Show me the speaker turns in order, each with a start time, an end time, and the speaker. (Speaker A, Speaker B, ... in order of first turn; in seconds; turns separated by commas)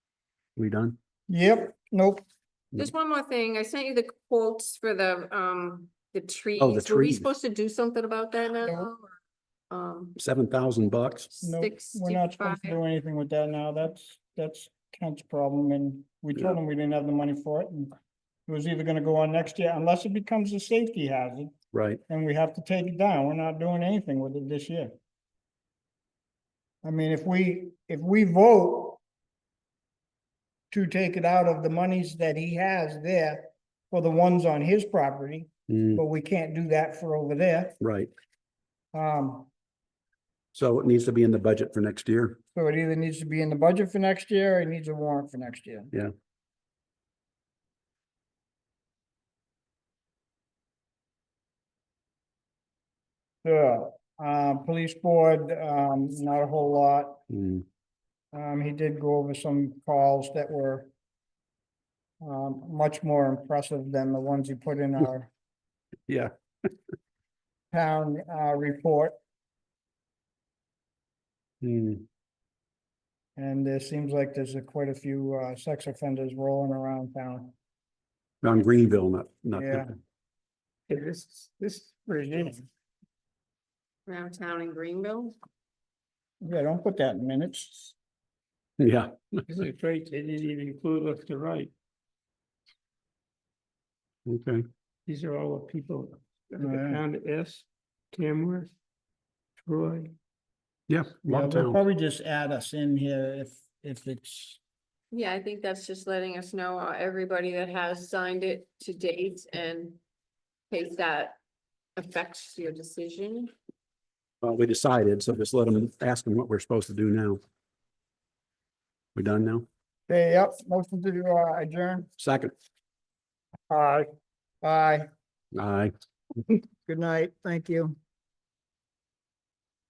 Speaker A: 0.6-1.0, Speaker B: 1.3-2.2, Speaker C: 2.8-9.1, Speaker A: 6.6-7.3, Speaker C: 9.7-10.2, Speaker A: 10.2-11.3, Speaker C: 11.3-12.8, Speaker B: 11.4-17.9, Speaker B: 18.5-21.5, Speaker A: 21.7-22.0, Speaker B: 22.1-24.9, Speaker B: 26.8-29.0, Speaker B: 30.7-37.8, Speaker A: 35.7-36.0, Speaker A: 37.8-38.1, Speaker B: 38.9-39.5, Speaker A: 40.5-42.4, Speaker B: 42.5-45.9, Speaker B: 53.4-57.2, Speaker A: 57.3-57.6, Speaker B: 58.3-60.9, Speaker B: 62.2-65.3, Speaker B: 67.7-69.1, Speaker A: 71.6-72.0, Speaker B: 73.4-77.5, Speaker A: 78.4-79.9, Speaker B: 79.5-79.9, Speaker D: 80.9-82.6, Speaker C: 84.1-85.4, Speaker B: 86.4-88.0, Speaker A: 88.8-89.4, Speaker D: 89.5-91.7, Speaker A: 94.3-94.7, Speaker D: 95.1-98.7, Speaker B: 96.6-97.0, Speaker D: 99.6-100.2, Speaker A: 100.9-101.8, Speaker B: 101.2-104.6, Speaker C: 105.1-110.0, Speaker C: 110.7-111.4, Speaker C: 112.0-113.5, Speaker A: 114.4-117.4, Speaker A: 119.2-119.7, Speaker B: 120.1-122.1, Speaker A: 122.2-122.5, Speaker B: 123.7-124.1, Speaker B: 124.6-125.1, Speaker A: 125.5-125.9, Speaker B: 126.5-128.0